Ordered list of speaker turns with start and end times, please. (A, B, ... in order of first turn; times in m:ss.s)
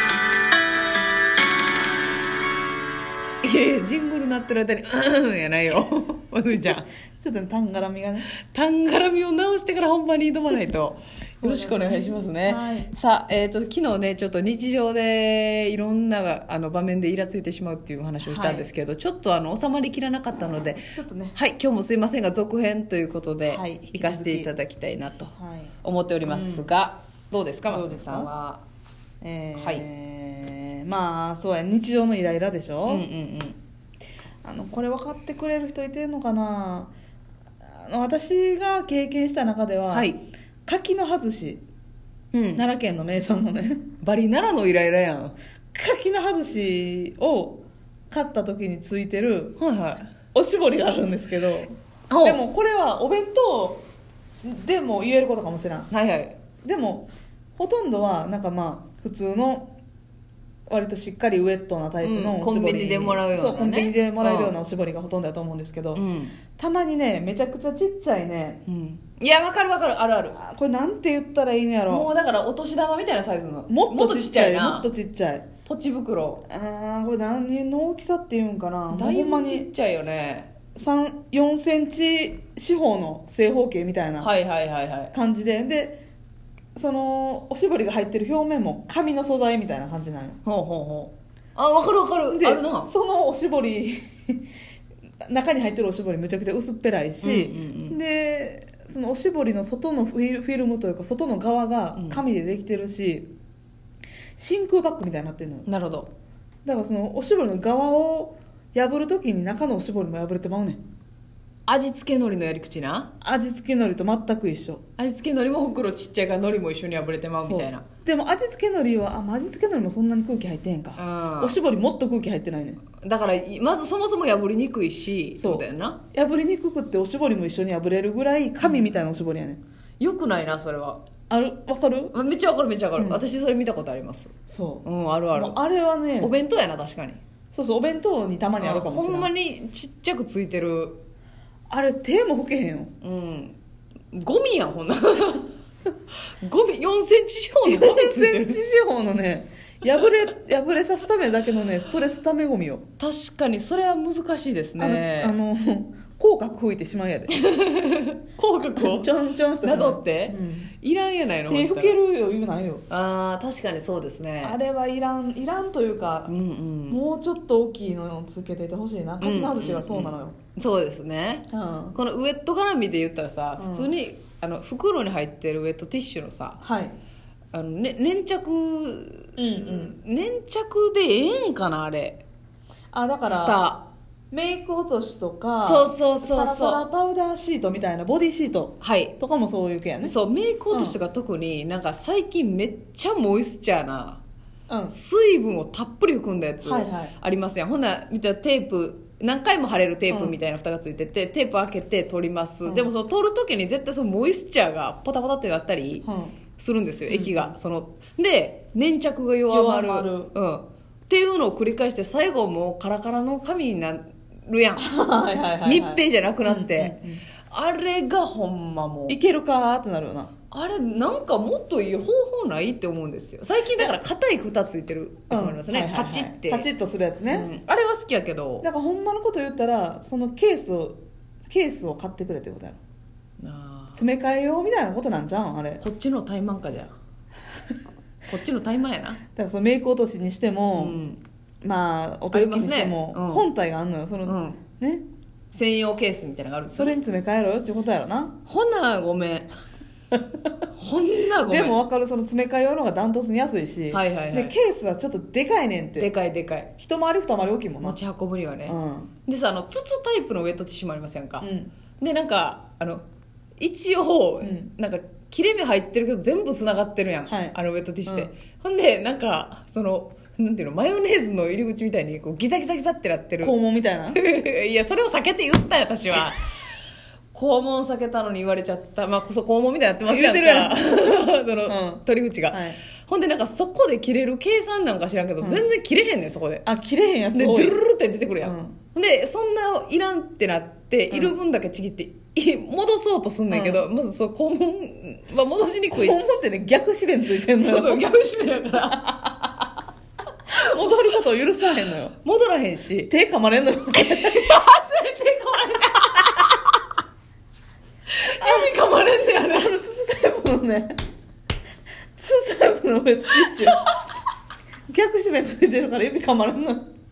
0:03.4-0:06.9 A
0:07.2-0:08.3 B
0:08.4-0:28.6 A
0:11.4-0:12.9 B
0:18.2-0:18.6 B
0:20.9-0:21.4 B
0:23.4-0:24.5 B
0:25.4-0:25.7 B
0:26.2-0:26.6 B
0:27.7-0:28.3 B
0:29.2-0:33.0 B
0:29.6-0:29.8 A
0:32.8-0:33.6 A
0:34.4-0:36.9 B
0:37.7-0:40.1 B
0:39.9-0:40.2 A
0:40.6-0:41.6 B
0:42.3-0:42.6 A
0:42.5-0:43.9 B
0:44.0-0:45.4 A
0:45.7-0:49.6 B
0:49.6-0:50.1 A
0:50.3-0:53.8 B
0:52.1-0:52.4 A
0:54.4-0:55.9 B
0:55.9-0:56.4 A
0:56.6-0:59.7 B
1:00.7-1:06.0 B
1:02.0-1:04.5 A
1:05.9-1:06.3 A
1:06.6-1:08.6 B
1:08.6-1:10.4 A
1:10.3-1:12.1 B
1:11.9-1:14.9 A
1:13.7-1:15.5 B
1:15.6-1:16.4 A
1:16.5-1:19.7 B
1:18.9-1:20.5 A
1:20.7-1:24.3 B
1:24.2-1:25.1 A
1:25.1-1:26.0 B
1:26.7-1:30.4 B
1:30.4-1:32.9 A
1:32.3-1:34.4 B
1:35.2-1:43.3 B
1:37.2-1:38.0 A
1:42.0-1:42.2 A
1:44.4-1:45.7 B
1:45.6-1:46.1 A
1:46.6-1:50.8 B
1:51.7-1:53.1 A
1:53.2-1:54.8 B
1:55.0-1:57.8 A
1:57.4-2:02.8 B
2:01.0-2:01.6 A
2:03.0-2:06.0 A
2:05.3-2:09.6 B
2:08.6-2:09.0 A
2:10.0-2:11.0 A
2:11.3-2:12.1 B
2:12.1-2:14.3 A
2:13.0-2:13.2 B
2:14.5-2:16.3 B
2:14.8-2:15.6 A
2:16.2-2:17.2 A
2:17.5-2:19.3 B
2:18.6-2:21.0 A
2:21.7-2:22.9 B
2:23.0-2:23.6 A
2:24.1-2:25.5 A
2:26.4-2:28.6 A
2:27.6-2:32.8 B
2:33.0-2:35.3 A
2:34.8-2:37.4 B
2:37.3-2:39.1 A
2:38.8-2:40.7 B
2:39.6-2:42.0 A
2:41.5-2:42.8 B
2:42.9-2:44.6 A
2:44.4-2:46.3 B
2:46.3-2:47.0 A
2:46.9-2:50.4 B
2:49.2-2:56.6 A
2:51.5-2:52.0 B
2:53.6-2:53.9 B
2:56.6-2:57.0 B
2:57.5-3:02.2 A
2:59.4-3:00.0 B
3:02.9-3:03.6 B
3:03.3-3:03.8 A
3:04.3-3:10.1 B
3:05.6-3:06.8 A
3:08.8-3:09.1 A
3:10.0-3:14.2 A
3:14.7-3:14.9 B
3:14.9-3:26.0 A
3:16.6-3:17.1 B
3:20.1-3:20.4 B
3:22.6-3:22.9 B
3:26.0-3:26.4 B
3:26.6-3:34.8 A
3:27.1-3:27.5 B
3:29.5-3:30.3 B
3:34.8-3:37.2 B
3:35.6-3:39.2 A
3:39.1-3:40.3 B
3:40.5-3:46.7 A
3:45.3-3:47.5 B
3:47.3-3:48.7 A
3:48.6-3:52.8 B
3:53.4-3:54.0 A
3:53.9-3:55.8 B
3:55.8-3:56.9 A
3:58.2-3:59.2 A
3:59.3-4:01.0 B
4:00.8-4:01.2 A
4:01.6-4:05.0 B
4:02.3-4:03.5 A
4:04.2-4:04.6 A
4:05.5-4:07.0 A
4:06.7-4:08.4 B
4:08.4-4:09.5 A
4:10.7-4:11.8 A
4:11.4-4:16.1 B
4:13.9-4:14.5 A
4:16.0-4:16.7 A
4:16.8-4:18.0 B
4:17.8-4:21.5 A
4:18.6-4:19.1 B
4:21.4-4:21.7 B
4:22.0-4:23.0 A
4:23.6-4:33.6 A
4:24.4-4:24.7 B
4:27.3-4:28.3 B
4:33.4-4:34.2 B
4:34.1-4:36.5 A
4:37.3-4:46.6 A
4:40.0-4:40.9 B
4:41.7-4:42.8 B
4:45.4-4:45.7 B
4:46.6-4:47.8 B
4:47.3-4:56.3 A
4:48.4-4:48.8 B
4:53.5-4:53.8 B
4:55.9-4:58.1 B
4:57.4-4:59.1 A
4:58.9-4:59.6 B
5:00.5-5:02.1 B
5:00.5-5:01.1 A
5:02.2-5:03.1 A
5:03.1-5:04.6 B
5:04.0-5:06.6 A
5:08.1-5:09.8 A
5:08.4-5:08.8 B
5:09.3-5:11.0 B
5:12.2-5:13.8 B
5:14.9-5:16.9 B